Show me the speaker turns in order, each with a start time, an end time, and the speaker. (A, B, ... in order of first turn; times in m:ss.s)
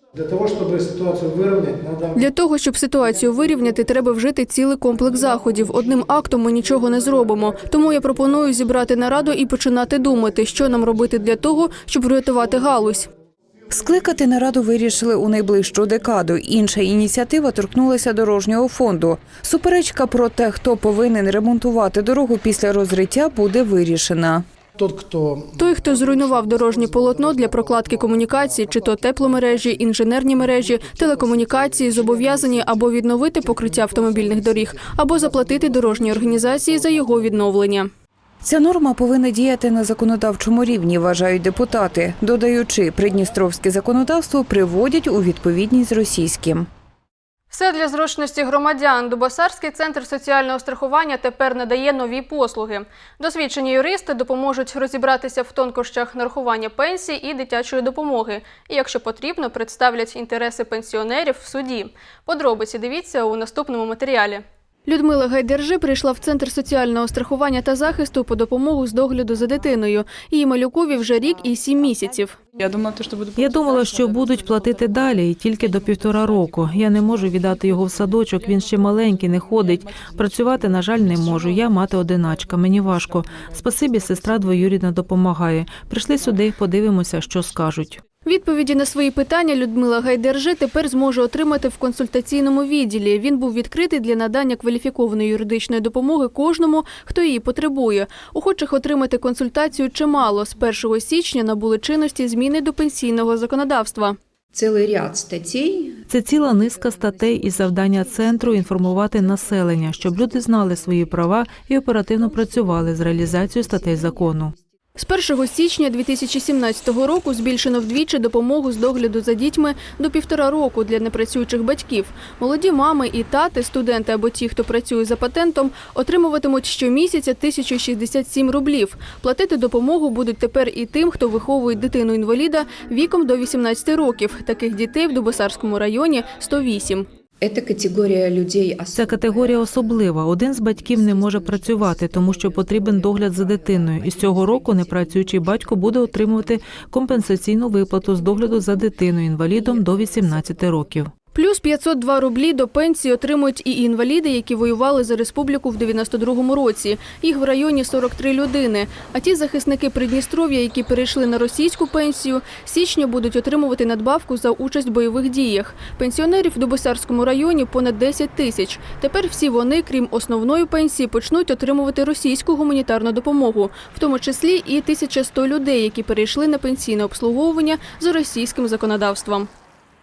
0:00.2-0:02.2 A
0:02.2-0:13.1 B
0:13.7-0:24.4 C
0:24.8-0:29.5 A
0:25.6-0:37.9 B
0:30.5-0:37.2 A
0:38.4-0:46.7 C
0:47.5-1:12.4 B
1:12.6-1:13.4 D
1:13.4-1:28.0 E
1:28.2-1:44.2 B
1:44.5-1:46.0 D
1:46.1-1:54.6 E
1:55.0-2:17.1 B
2:17.4-2:19.2 D
2:18.9-2:31.1 E
2:31.3-2:59.5 B